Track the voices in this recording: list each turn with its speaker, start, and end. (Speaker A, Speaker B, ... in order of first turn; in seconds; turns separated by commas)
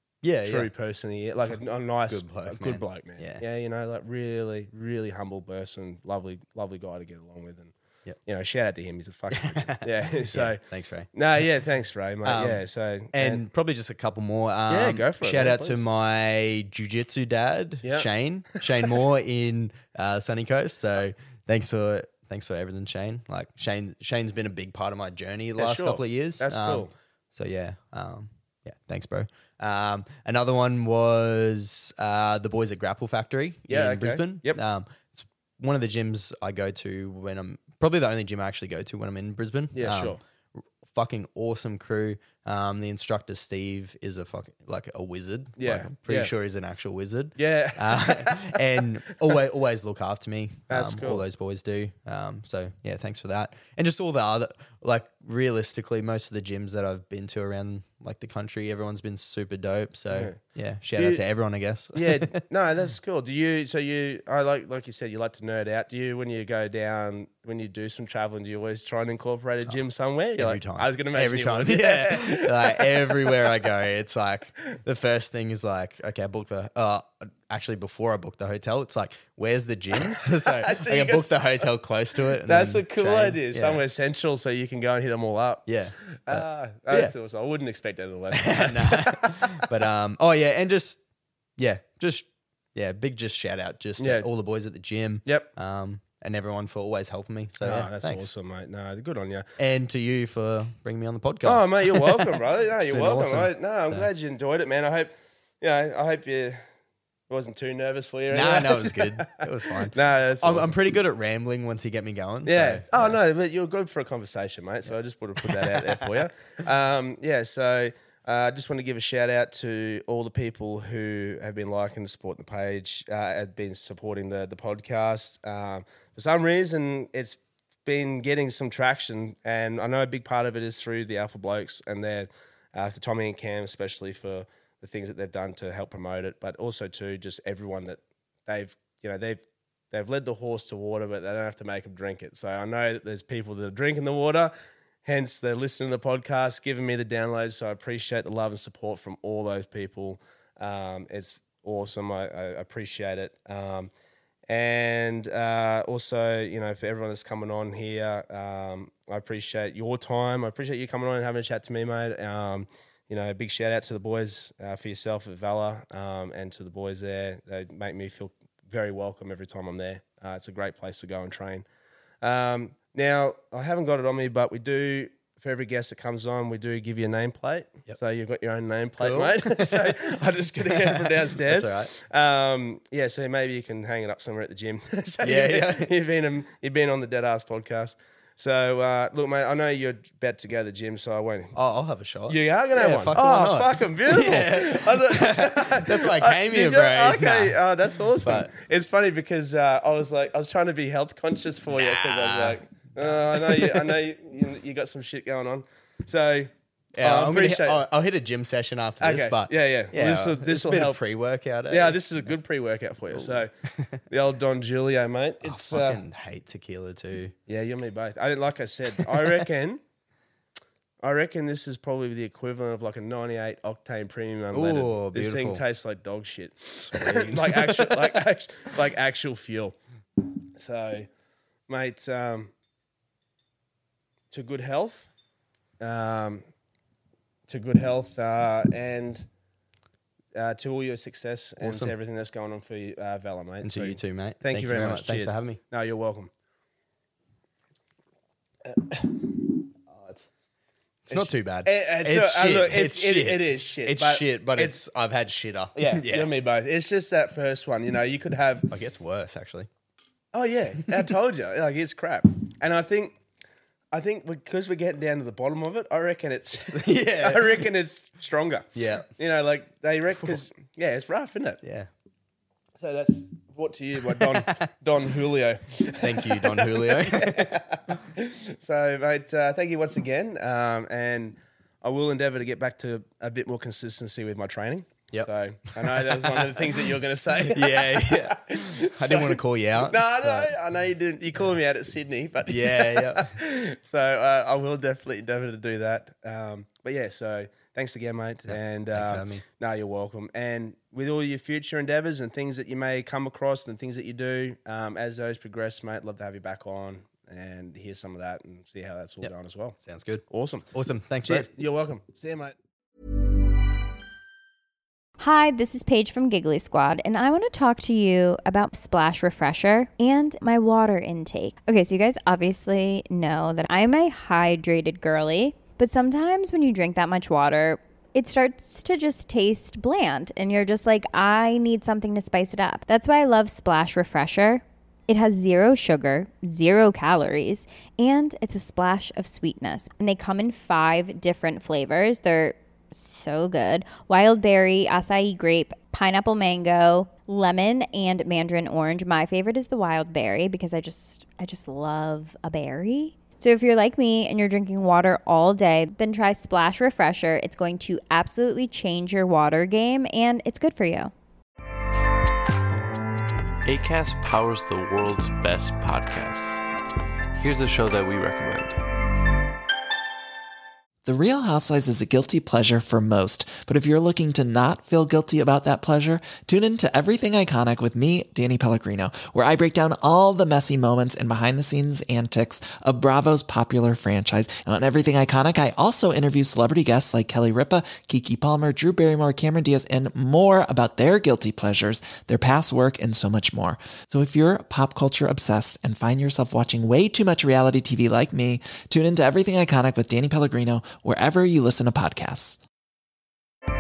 Speaker A: 0.2-0.7, Speaker B: 0.4-7.7, Speaker A: 1.4-3.4, Speaker B: 8.2-10.6, Speaker A: 9.3-11.1, Speaker B: 11.1-13.4, Speaker A: 12.2-62.4, Speaker B: 14.7-15.8, Speaker B: 17.8-18.9, Speaker B: 25.6-26.9, Speaker B: 33.7-34.6, Speaker B: 39.7-40.2, Speaker B: 45.6-46.3, Speaker B: 47.4-48.6, Speaker B: 50.7-51.2, Speaker B: 60.1-60.4, Speaker B: 61.0-61.2, Speaker B: 61.9-73.5, Speaker A: 70.3-83.8, Speaker B: 80.0-81.7, Speaker B: 82.4-89.7, Speaker A: 85.7-87.1, Speaker A: 88.3-91.0, Speaker A: 91.6-98.3, Speaker B: 94.0-94.2, Speaker B: 97.6-99.5, Speaker A: 99.6-104.1, Speaker B: 101.4-106.6, Speaker B: 107.3-110.7, Speaker A: 108.3-113.2, Speaker B: 112.5-144.5, Speaker A: 115.4-116.3, Speaker B: 145.0-153.9, Speaker B: 154.5-171.6, Speaker B: 172.2-191.5, Speaker A: 179.0-180.0, Speaker A: 180.6-181.9, Speaker A: 185.2-185.9, Speaker A: 191.5-197.6, Speaker B: 192.3-207.8, Speaker A: 198.2-198.5, Speaker A: 201.7-204.0, Speaker A: 206.9-212.0, Speaker B: 209.0-211.0, Speaker B: 211.7-213.5, Speaker A: 213.1-214.0, Speaker B: 214.1-216.0, Speaker A: 215.4-217.3, Speaker B: 217.5-219.8, Speaker A: 219.1-219.4, Speaker B: 221.0-229.8, Speaker A: 224.5-225.6, Speaker A: 226.9-228.2, Speaker B: 230.5-231.1, Speaker B: 231.7-232.5, Speaker B: 234.3-235.1, Speaker B: 235.8-236.4, Speaker B: 237.5-239.3, Speaker B: 240.3-246.3, Speaker A: 241.6-241.9, Speaker A: 243.6-245.6, Speaker B: 248.7-249.3, Speaker A: 249.9-250.3, Speaker A: 251.1-256.3, Speaker B: 251.1-254.8, Speaker B: 255.7-258.7, Speaker A: 258.7-259.7, Speaker B: 260.3-263.2, Speaker B: 263.9-271.6, Speaker A: 266.6-267.7, Speaker A: 268.7-269.1, Speaker A: 271.6-271.9, Speaker B: 272.8-309.8, Speaker A: 274.1-274.4, Speaker A: 276.0-277.9, Speaker A: 285.1-290.5, Speaker A: 292.5-293.4, Speaker A: 298.5-299.4, Speaker A: 309.2-311.5, Speaker B: 310.3-310.6, Speaker B: 311.2-312.5, Speaker C: 315.2-361.1, Speaker D: 363.6-366.6, Speaker D: 367.3-368.8, Speaker E: 371.0-402.6